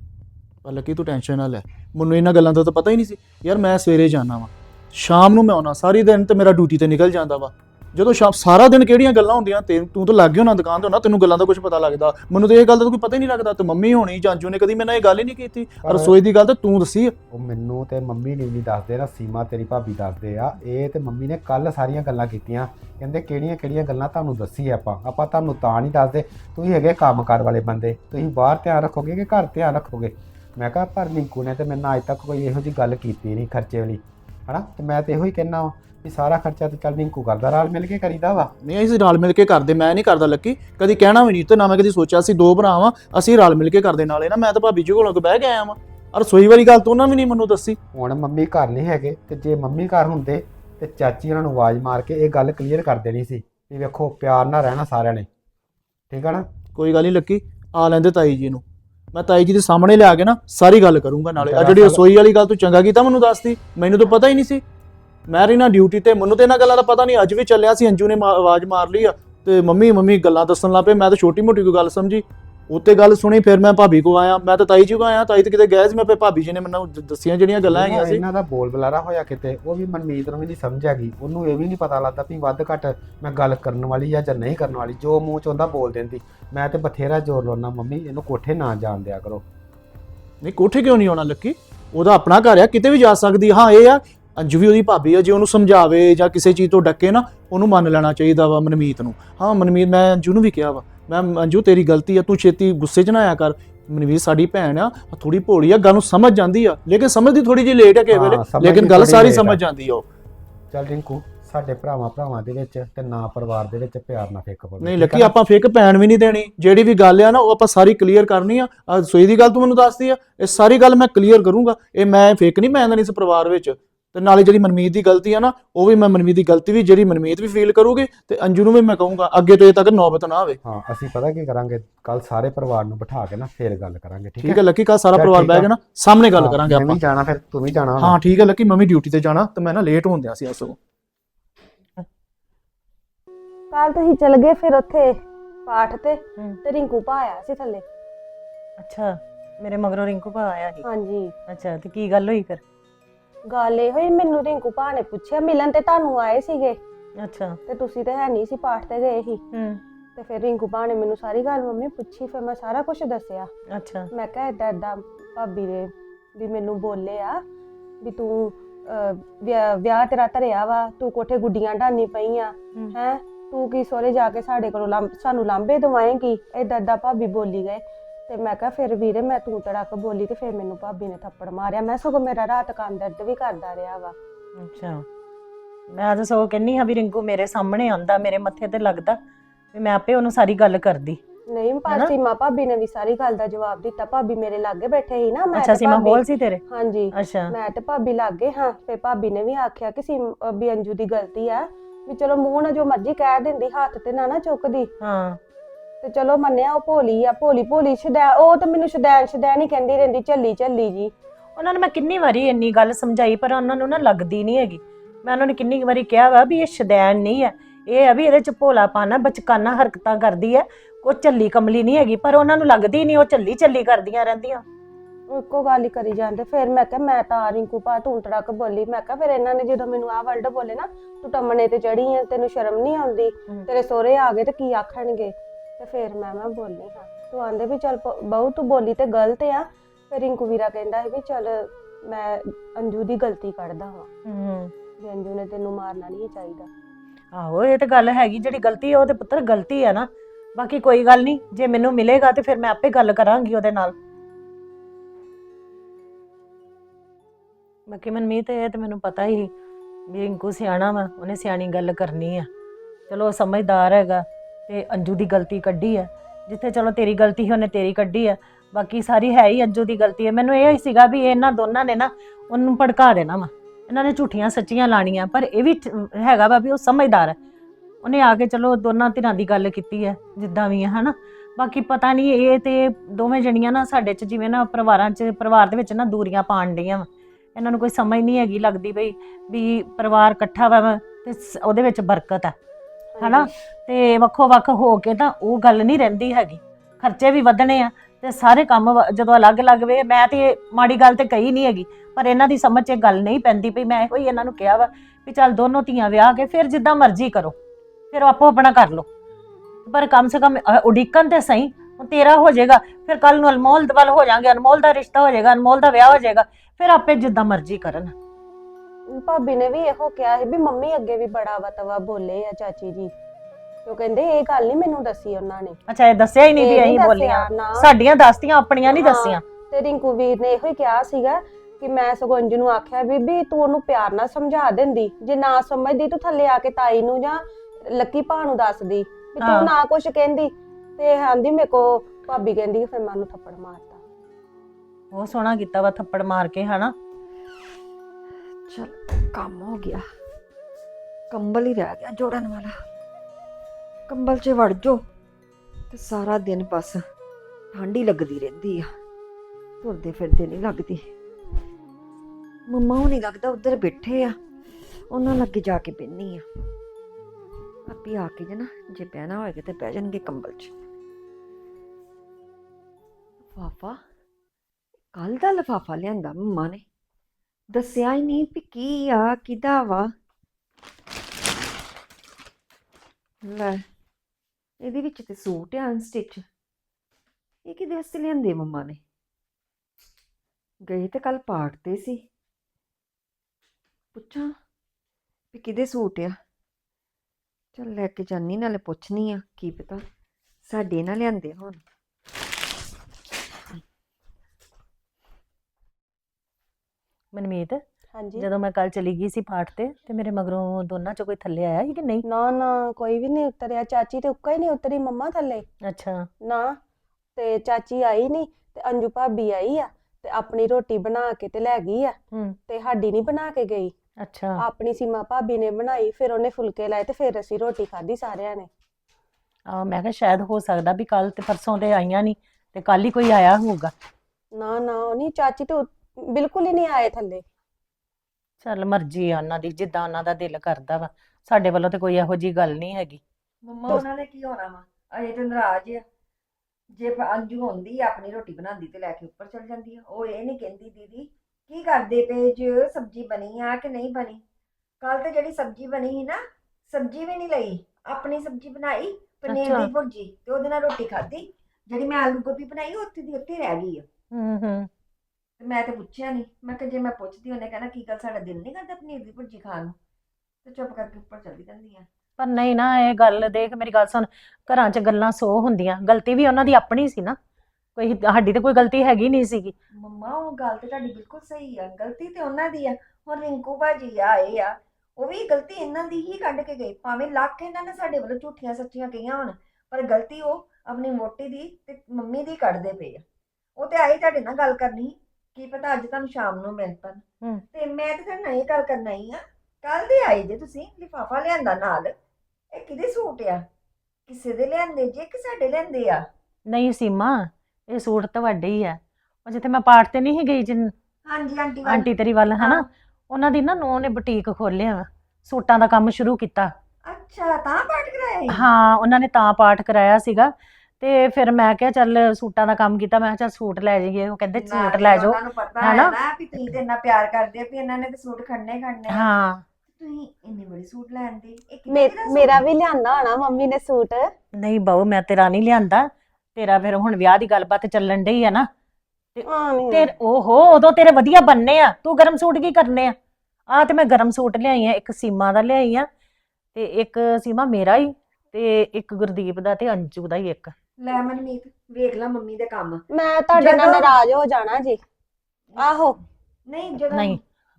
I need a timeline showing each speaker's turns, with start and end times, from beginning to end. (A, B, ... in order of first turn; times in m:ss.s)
0:00.6-0:17.1 A
0:15.8-0:16.2 B
0:17.3-0:38.5 B
0:38.6-0:47.8 A
0:47.9-0:55.3 B
0:56.1-0:56.4 B
0:56.8-1:04.6 A
1:01.4-1:02.0 B
1:05.3-1:18.2 A
1:17.6-1:29.4 B
1:30.4-1:50.0 A
1:48.1-1:49.6 B
1:50.7-1:55.3 B
1:54.8-2:10.6 A
2:10.6-2:15.7 B
2:14.4-2:17.0 A
2:16.4-2:18.2 B
2:18.0-2:20.8 A
2:23.7-2:25.1 C
2:25.7-2:27.8 C
2:28.8-2:30.8 D
2:30.8-2:31.3 C
2:31.5-2:32.6 D
2:33.5-2:36.8 C
2:37.2-2:37.6 D
2:37.7-2:39.4 C
2:39.5-2:39.8 D
2:40.2-2:43.5 C
2:43.7-2:44.1 D
2:44.1-2:47.4 C
2:48.0-3:04.2 C
3:04.6-3:05.0 D
3:05.9-3:09.2 D
3:09.7-3:11.2 D
3:11.5-3:24.9 C
3:11.9-3:12.2 D
3:15.5-3:16.6 D
3:17.1-3:17.5 D
3:25.0-3:25.4 D
3:26.0-3:31.1 C
3:31.6-3:44.6 D
3:45.3-4:04.1 C
4:04.3-4:04.7 D
4:05.0-4:06.7 C
4:07.3-4:14.0 D
4:17.9-4:19.5 D
4:20.1-4:22.5 D
4:23.1-4:37.4 D
4:38.0-4:52.5 D
4:53.2-4:53.5 C
4:53.2-5:07.6 D
5:08.1-5:09.1 D
5:09.9-5:18.1 D
5:19.1-5:23.1 C
5:23.9-5:25.8 C
5:25.9-5:29.4 D
5:26.6-5:27.9 C
5:28.9-5:44.0 C
5:39.4-5:39.8 D
5:45.1-5:46.9 D
5:48.7-5:50.0 E
5:51.3-5:52.7 E
5:54.1-5:55.0 E
5:55.9-5:57.0 E
5:57.7-5:58.9 E
5:59.8-6:01.0 E
6:02.7-6:04.3 E
6:05.1-6:06.4 E
6:07.9-6:10.7 E
6:13.5-6:14.0 E
6:15.1-6:16.8 E
6:17.7-6:20.1 E
6:23.4-6:23.8 E
6:24.8-6:26.4 E
6:27.7-6:29.0 E
6:30.9-6:32.2 E
6:34.2-6:34.5 E
6:35.5-6:36.4 E
6:37.8-6:40.0 E
6:40.7-6:41.8 E
6:47.3-6:47.8 D
6:48.1-6:48.5 C
6:48.3-6:52.2 D
6:52.3-6:55.6 C
6:55.8-6:56.3 D
6:56.4-6:56.8 C
6:57.4-7:02.2 C
7:02.3-7:02.6 D
7:02.7-7:03.9 C
7:04.2-7:04.6 D
7:04.6-7:08.7 C
7:09.7-7:13.9 D
7:14.5-7:17.4 C
7:18.6-7:23.2 D
7:23.6-7:26.0 E
7:26.9-7:34.4 E
7:35.0-7:44.0 E
7:39.5-7:39.9 D
7:44.3-7:44.9 D
7:45.6-7:50.0 E
7:50.6-7:52.1 E
7:52.4-7:57.4 D
7:58.0-7:59.7 D
8:00.0-8:13.2 E
8:13.8-8:22.1 E
8:22.7-8:23.6 E
8:24.3-8:26.2 E
8:26.7-8:30.9 D
8:31.3-8:32.8 E
8:31.8-8:36.7 D
8:37.1-8:38.7 E
8:38.5-8:46.2 D
8:44.5-8:49.3 E
8:49.1-8:49.6 D
8:49.9-8:52.6 E
8:51.9-8:54.3 C
8:54.6-8:58.7 D
8:59.4-9:03.2 D
8:59.5-9:00.1 C
9:03.7-9:06.1 D
9:06.8-9:10.8 D
9:11.0-9:13.0 E
9:13.1-9:15.0 C
9:13.6-9:14.2 E
9:15.8-9:16.2 C
9:16.7-9:17.4 E
9:17.1-9:17.4 D